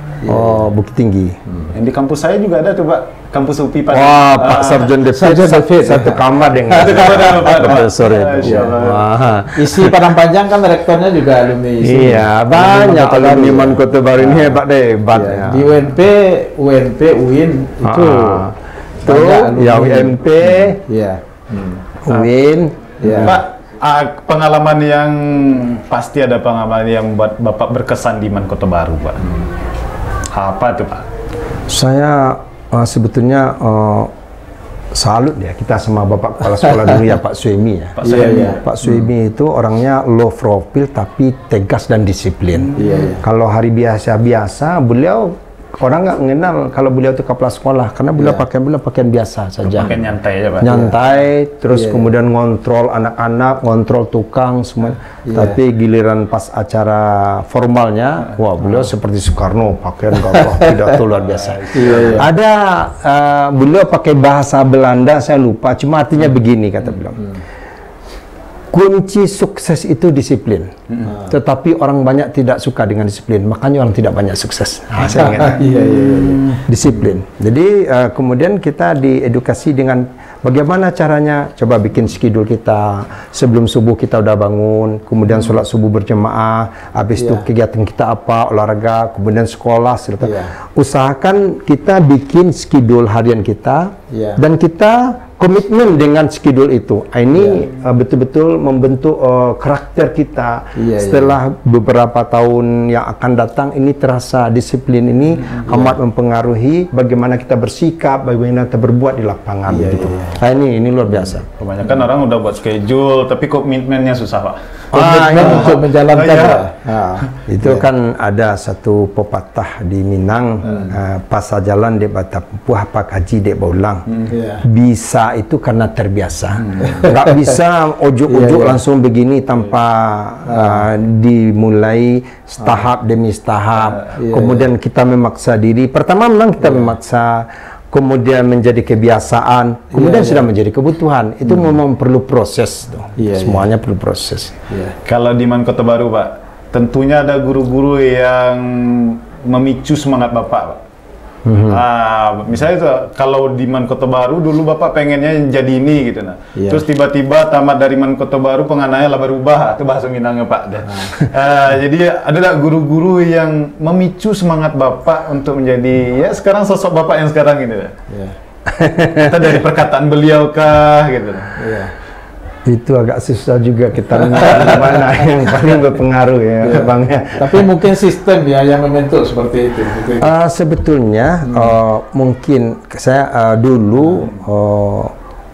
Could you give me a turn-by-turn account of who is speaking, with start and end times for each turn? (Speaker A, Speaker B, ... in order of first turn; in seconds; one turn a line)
Speaker A: 0.2-0.7
Speaker B: 0.2-1.4
Speaker C: 1.7-4.9
Speaker B: 3.9-10.1
Speaker A: 5.0-7.9
Speaker C: 6.7-9.1
Speaker A: 8.4-8.7
Speaker A: 9.5-14.6
Speaker B: 11.8-15.8
Speaker A: 15.1-18.4
Speaker B: 17.8-20.8
Speaker A: 19.0-21.8
Speaker B: 22.0-23.4
Speaker A: 23.0-23.4
Speaker C: 23.2-29.2
Speaker C: 30.3-31.1
Speaker B: 31.7-34.1
Speaker B: 34.9-50.1
Speaker C: 38.0-38.6
Speaker A: 38.0-38.6
Speaker A: 42.7-43.2
Speaker A: 48.1-48.4
Speaker C: 49.7-50.7
Speaker B: 50.6-67.2
Speaker A: 50.7-51.0
Speaker A: 51.7-52.1
Speaker A: 55.3-55.6
Speaker A: 60.3-61.0
Speaker A: 61.7-62.3
Speaker B: 68.7-70.7
Speaker A: 71.0-71.3
Speaker B: 71.2-75.7
Speaker A: 75.1-77.0
Speaker C: 76.1-76.5
Speaker B: 76.6-111.5
Speaker A: 87.2-87.4
Speaker A: 90.2-90.5
Speaker A: 94.1-94.4
Speaker A: 97.3-97.7
Speaker A: 100.7-101.3
Speaker A: 105.7-106.0
Speaker A: 109.7-110.4
Speaker C: 111.6-114.8
Speaker B: 114.9-115.8
Speaker A: 114.9-117.8
Speaker C: 115.4-116.7
Speaker B: 117.5-124.0
Speaker A: 120.7-120.9
Speaker A: 124.3-124.6
Speaker B: 124.6-144.6
Speaker A: 126.8-127.3
Speaker A: 128.3-128.8
Speaker A: 130.5-130.8
Speaker A: 134.1-134.7
Speaker A: 136.6-136.9
Speaker A: 139.9-140.5
Speaker A: 141.4-141.7
Speaker A: 143.2-143.7
Speaker A: 144.7-144.9
Speaker C: 145.0-150.8
Speaker B: 151.4-151.8
Speaker C: 151.7-167.9
Speaker A: 156.6-156.8
Speaker A: 160.8-161.2
Speaker A: 168.1-168.3
Speaker B: 168.7-169.4
Speaker C: 169.1-171.8
Speaker A: 171.5-171.9
Speaker B: 172.7-177.7
Speaker C: 174.4-174.8
Speaker A: 176.6-180.3
Speaker B: 180.2-185.1
Speaker A: 181.4-181.7